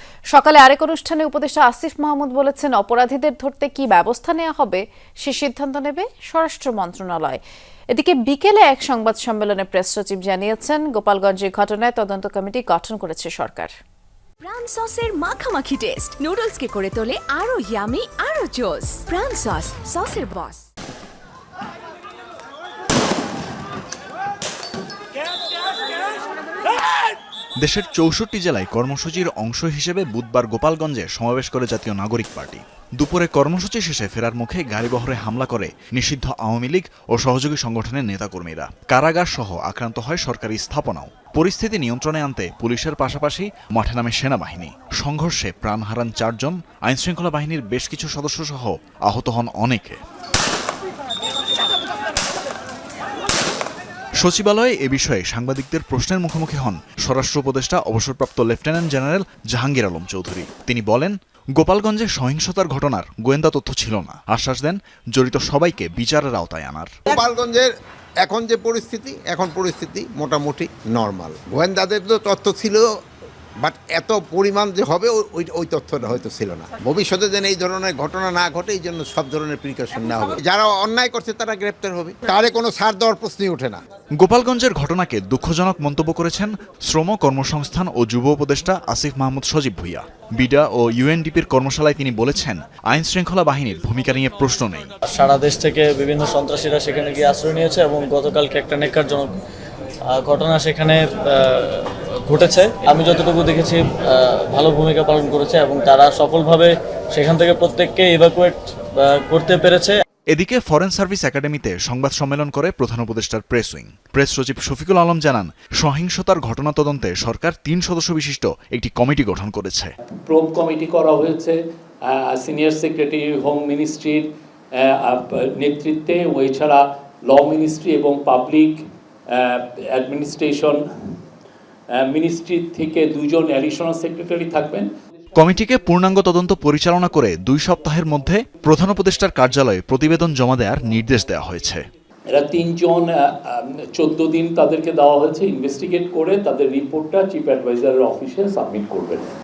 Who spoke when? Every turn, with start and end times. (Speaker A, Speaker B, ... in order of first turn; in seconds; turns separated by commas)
Speaker A: 0.3-7.4, Speaker A: 7.9-13.7, Speaker B: 14.4-20.7, Speaker C: 27.6-50.0, Speaker C: 54.2-66.9, Speaker D: 67.1-67.7, Speaker D: 68.2-72.8, Speaker D: 73.6-83.8, Speaker C: 84.2-94.9, Speaker E: 95.1-99.4, Speaker E: 100.1-110.0, Speaker C: 110.3-119.9, Speaker F: 120.3-130.8, Speaker F: 131.9-134.9, Speaker C: 135.3-141.8, Speaker F: 142.3-149.3